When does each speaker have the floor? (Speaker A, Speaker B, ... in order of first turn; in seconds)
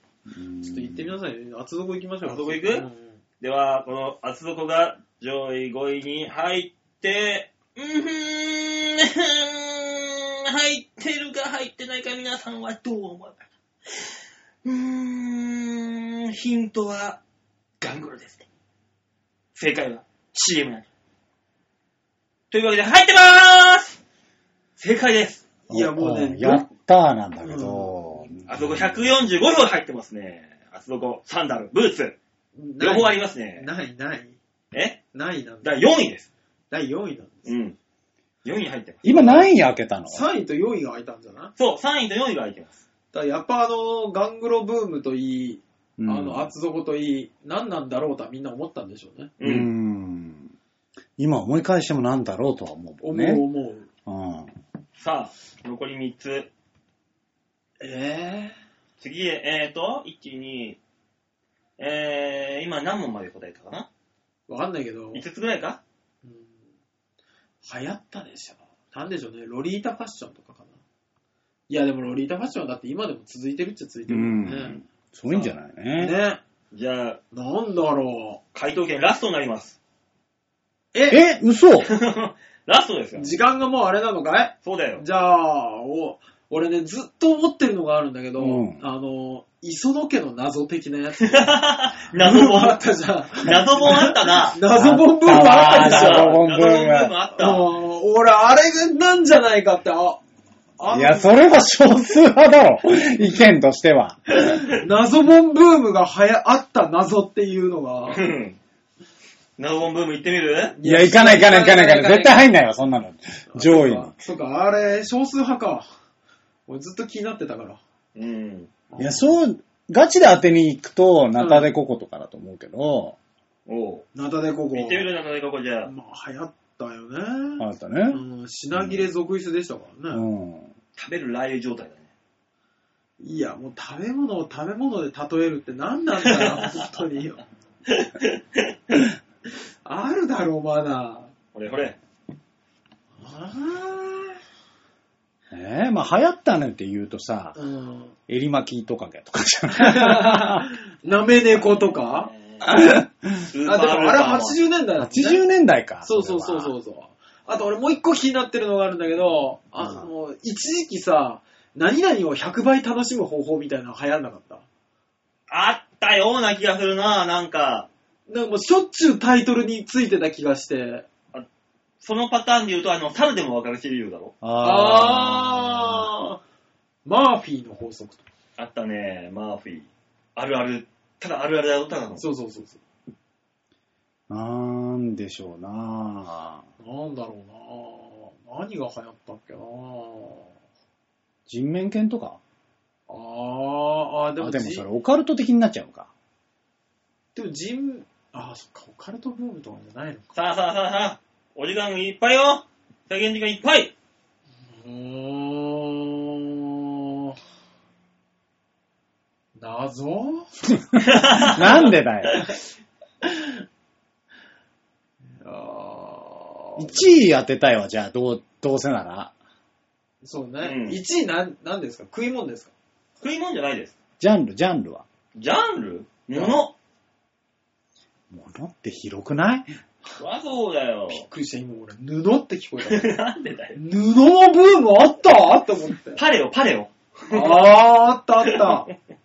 Speaker A: 0.3-1.1, 25.7-29.0, 39.0-40.2, 46.0-46.5, 49.4-50.5, 51.2-53.5, 54.1-54.5, 74.1-76.2, 81.1-81.9, 88.4-88.8, 94.7-97.1, 100.9-104.2, 110.8-114.2, 119.0-123.2, 127.6-128.2, 128.8-129.0, 130.1-130.7, 145.5-147.6, 148.3-150.7, 152.7-153.5, 155.0-156.8, 159.8-160.1, 174.4-176.1, 184.3-186.6, 191.5-192.4, 194.4-196.1, 210.7-212.4, 216.8-219.3, 224.2-225.1, 228.3-229.7
Speaker B: 0.6-3.1, 25.7-26.7, 27.4-28.0, 32.5-34.4, 35.1-35.8, 36.7-37.5, 39.1-39.5, 40.1-41.5, 43.1-49.3, 53.0-53.9, 57.8-58.5, 64.5-65.2, 66.2-66.6, 67.6-70.8, 71.7-74.8, 75.3-76.4, 77.3-78.4, 80.9-81.2, 83.2-96.4, 97.4-100.2, 100.8-101.5, 104.5-108.2, 110.8-112.4, 113.5-115.9, 116.7-117.8, 118.9-119.3, 121.4-121.7, 124.2-125.1, 125.8-130.2, 133.2-137.4, 139.8-141.3, 143.2-144.4, 147.6-148.2, 149.7-153.0, 153.7-155.4, 156.0-164.7, 168.3-171.1, 174.6-176.4, 177.1-178.2, 182.2-182.8, 186.8-190.5, 193.1-194.8, 197.3-200.4, 204.7-207.4, 209.6-210.5, 213.2-213.6, 215.4-217.1, 220.2-222.7, 226.3-226.6, 231.1-233.2, 233.8-236.2, 237.3-238.9
Speaker C: 2.2-2.9, 3.4-14.1, 14.6-17.2, 17.8-18.4, 19.6-20.9, 22.5-24.0, 24.8-25.4, 28.5-32.2, 32.8-33.7, 34.7-35.0, 35.6-36.3, 37.5-37.8, 38.5-39.0, 41.6-42.8, 49.4-49.7, 55.0-56.5, 59.0-60.8, 61.8-63.9, 65.1-65.8, 76.7-77.2, 78.5-79.8, 81.8-83.3, 84.6-85.0, 91.2-92.8, 93.4-94.6, 95.3-97.7, 108.1-108.6, 109.6-110.8, 118.2-118.7, 123.7-124.1, 124.7-125.9, 131.0-132.1, 136.2-136.8, 137.9-139.0, 141.5-142.0, 151.2-152.7, 153.5-154.6, 165.5-167.9, 172.0-174.3, 178.6-182.2, 200.3-203.9, 211.0-212.4, 220.6-221.0, 223.2-223.9, 225.3-226.7, 230.2-231.3, 232.8-233.8, 236.2-237.7, 238.5-238.9